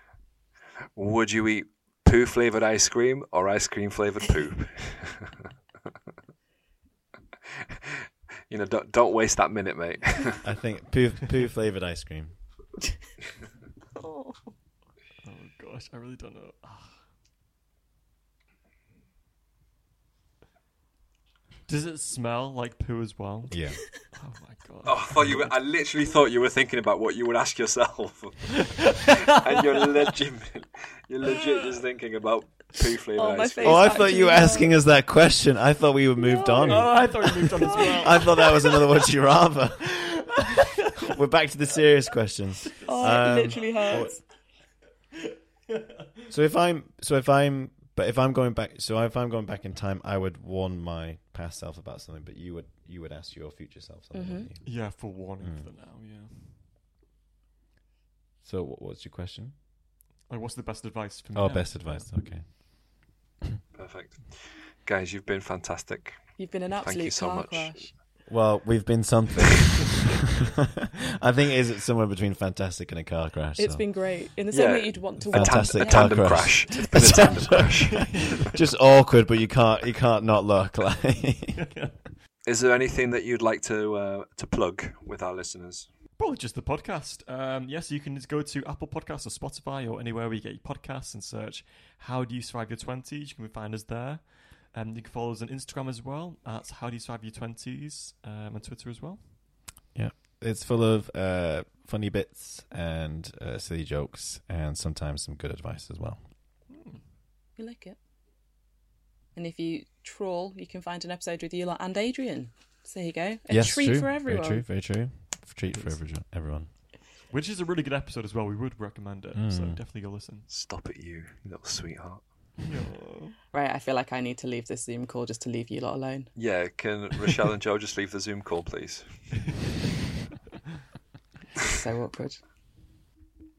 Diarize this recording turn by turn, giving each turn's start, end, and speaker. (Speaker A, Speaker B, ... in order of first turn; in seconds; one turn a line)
Speaker A: 0.9-5.3
Speaker A: 8.5-10.5
Speaker B: 10.4-12.3
Speaker C: 13.9-14.5
Speaker D: 15.2-17.1
Speaker D: 21.7-25.5
Speaker B: 23.5-23.8
Speaker A: 24.8-34.0
Speaker D: 28.6-29.8
Speaker D: 31.4-31.7
Speaker C: 33.1-34.7
Speaker B: 33.6-40.5
Speaker C: 36.2-37.0
Speaker D: 36.5-38.7
Speaker C: 37.6-38.6
Speaker D: 40.3-40.7
Speaker B: 41.0-44.1
Speaker D: 42.8-44.0
Speaker C: 42.8-44.2
Speaker B: 46.3-54.7
Speaker C: 54.1-54.5
Speaker D: 54.6-56.6
Speaker B: 55.4-55.7
Speaker B: 58.4-59.5
Speaker D: 60.3-62.1
Speaker B: 61.3-63.0
Speaker A: 63.7-66.2
Speaker C: 66.4-67.9
Speaker A: 66.8-67.8
Speaker B: 68.3-73.8
Speaker C: 73.6-76.3
Speaker A: 74.5-78.5
Speaker B: 75.3-77.8
Speaker D: 76.9-78.5
Speaker B: 78.5-81.6
Speaker D: 81.5-82.0
Speaker A: 82.5-85.9
Speaker D: 86.2-99.3
Speaker B: 99.9-106.2
Speaker D: 106.7-107.0
Speaker C: 107.6-108.0
Speaker C: 109.3-114.6
Speaker B: 113.5-116.7
Speaker D: 115.7-116.0
Speaker D: 117.3-120.5
Speaker B: 119.3-119.8
Speaker A: 120.5-122.2
Speaker D: 122.6-123.3
Speaker C: 123.5-126.3
Speaker A: 126.3-129.1
Speaker C: 131.6-132.4